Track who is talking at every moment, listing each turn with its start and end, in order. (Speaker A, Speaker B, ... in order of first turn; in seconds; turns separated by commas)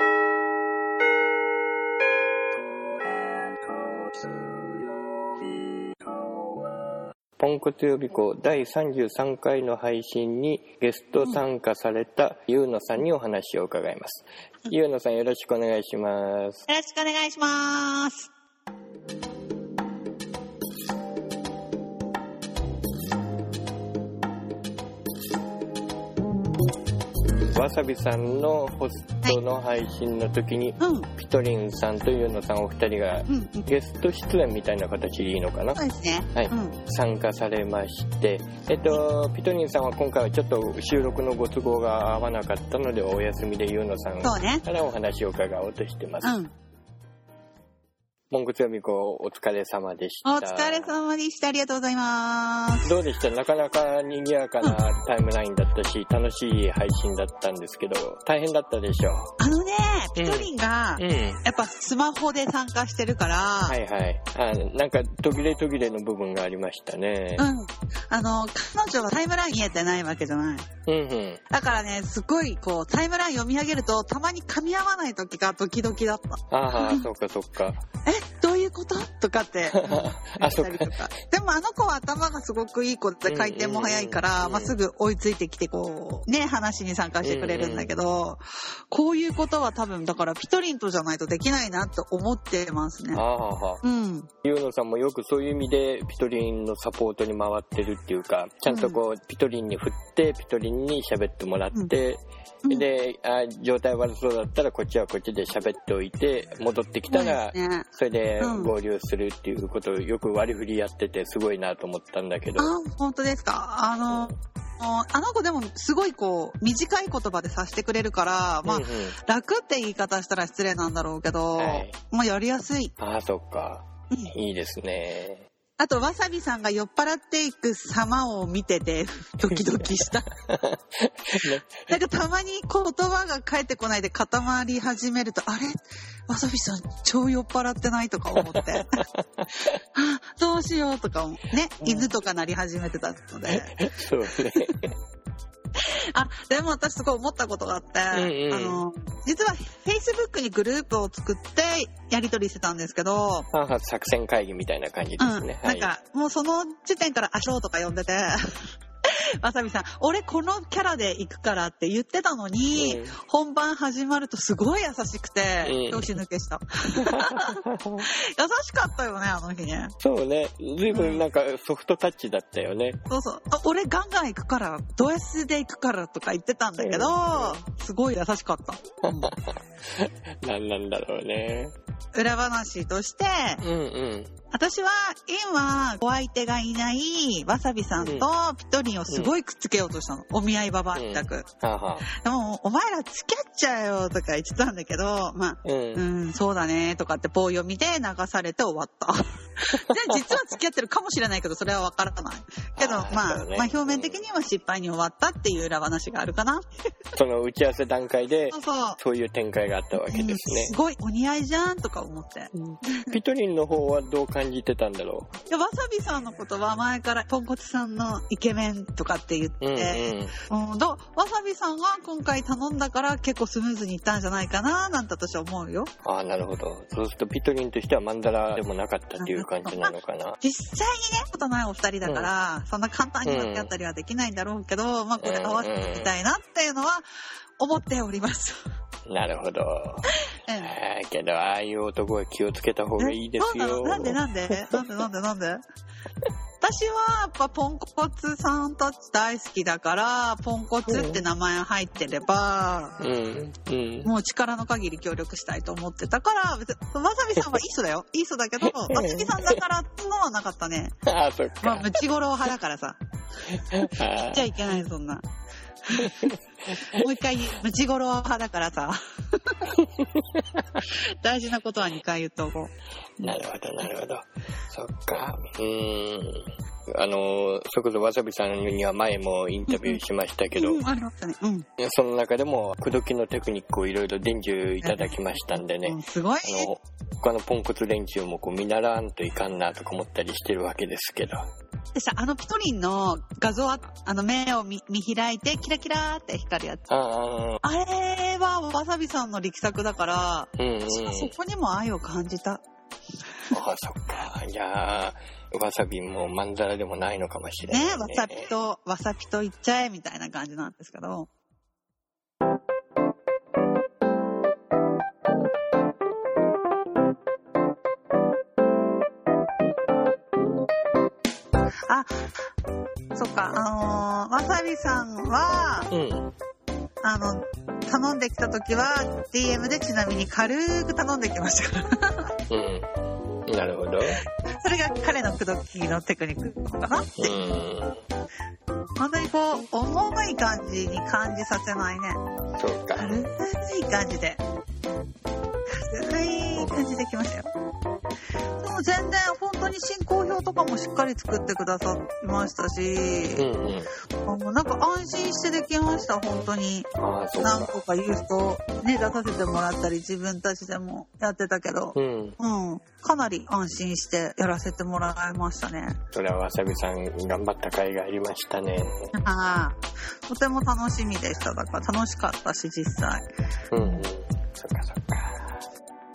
Speaker A: 7.4-16.7, Speaker B: 16.7-18.3, Speaker A: 27.5-35.8, Speaker B: 30.8-31.1, Speaker B: 33.3-33.7, Speaker B: 35.8-36.8, Speaker A: 36.3-46.4, Speaker B: 44.2-44.6, Speaker B: 46.2-46.5, Speaker A: 48.3-50.9, Speaker B: 50.2-52.9, Speaker A: 52.8-59.3, Speaker B: 59.4-63.8, Speaker A: 60.2-61.4, Speaker A: 63.6-67.5, Speaker B: 67.4-70.7, Speaker A: 70.9-71.4, Speaker B: 71.5-77.0, Speaker A: 76.5-77.8, Speaker B: 78.1-93.2, Speaker A: 79.7-81.0, Speaker A: 83.2-84.8, Speaker A: 87.2-87.9, Speaker A: 93.1-93.8, Speaker B: 93.8-94.3, Speaker A: 94.4-112.7, Speaker B: 98.7-99.0, Speaker B: 107.1-107.9, Speaker B: 108.4-108.7, Speaker B: 112.6-122.9, Speaker A: 114.0-114.3, Speaker A: 118.6-119.2, Speaker A: 121.6-122.0, Speaker A: 123.0-125.5, Speaker B: 125.8-130.3, Speaker A: 129.4-131.9, Speaker B: 131.7-139.0, Speaker A: 138.3-139.8, Speaker B: 139.9-143.8, Speaker A: 141.8-142.1, Speaker A: 143.5-144.9, Speaker B: 145.8-153.5, Speaker A: 148.1-148.8, Speaker A: 153.5-155.9, Speaker B: 155.2-158.7, Speaker B: 159.4-169.9, Speaker A: 162.7-163.2, Speaker A: 165.6-166.2, Speaker A: 167.0-168.1, Speaker A: 170.0-173.0, Speaker B: 170.9-171.2, Speaker B: 173.1-179.3, Speaker A: 176.8-177.6, Speaker A: 179.1-181.8, Speaker B: 182.2-183.6, Speaker A: 183.6-184.3, Speaker B: 184.5-191.5, Speaker A: 188.0-188.3, Speaker A: 189.1-189.3, Speaker A: 190.9-192.1, Speaker B: 192.1-206.7, Speaker A: 195.6-196.1, Speaker A: 200.1-200.4, Speaker A: 202.8-204.2, Speaker A: 207.2-210.8, Speaker B: 208.5-209.0, Speaker B: 210.0-213.2, Speaker A: 212.5-215.3, Speaker B: 215.5-225.9, Speaker A: 219.6-220.4, Speaker A: 226.0-230.4, Speaker B: 229.2-237.1, Speaker A: 232.0-232.3, Speaker A: 233.2-233.7, Speaker A: 235.2-236.1, Speaker B: 237.6-238.6, Speaker A: 239.1-244.8, Speaker B: 240.4-240.7, Speaker B: 243.0-245.6, Speaker B: 246.6-253.0, Speaker A: 250.9-251.2, Speaker A: 253.0-254.1, Speaker B: 254.0-260.9, Speaker A: 258.6-259.6, Speaker A: 261.1-262.0, Speaker B: 261.6-263.0, Speaker A: 263.5-264.5, Speaker B: 264.3-265.2, Speaker B: 265.9-269.7, Speaker A: 266.0-267.0, Speaker A: 269.7-270.8, Speaker B: 271.2-272.7, Speaker A: 273.2-280.8, Speaker B: 279.7-280.0, Speaker B: 280.6-281.7, Speaker A: 281.8-291.5, Speaker B: 284.8-286.7, Speaker B: 291.9-296.8, Speaker A: 296.9-297.6, Speaker B: 297.6-302.6, Speaker A: 300.6-301.3, Speaker A: 303.5-308.5, Speaker B: 307.6-311.3, Speaker B: 323.1-325.9, Speaker A: 325.9-326.3, Speaker B: 327.0-332.3, Speaker A: 332.5-332.9, Speaker A: 333.5-334.2, Speaker B: 334.6-337.4, Speaker A: 337.2-338.0, Speaker B: 339.0-342.2, Speaker A: 342.6-343.3, Speaker B: 342.9-344.4, Speaker B: 345.8-347.5, Speaker A: 346.5-346.9, Speaker B: 348.6-353.5, Speaker A: 353.4-353.9, Speaker B: 354.3-366.0, Speaker A: 357.0-357.8, Speaker A: 361.9-362.4, Speaker A: 366.1-369.1, Speaker B: 369.2-374.1, Speaker A: 373.7-375.6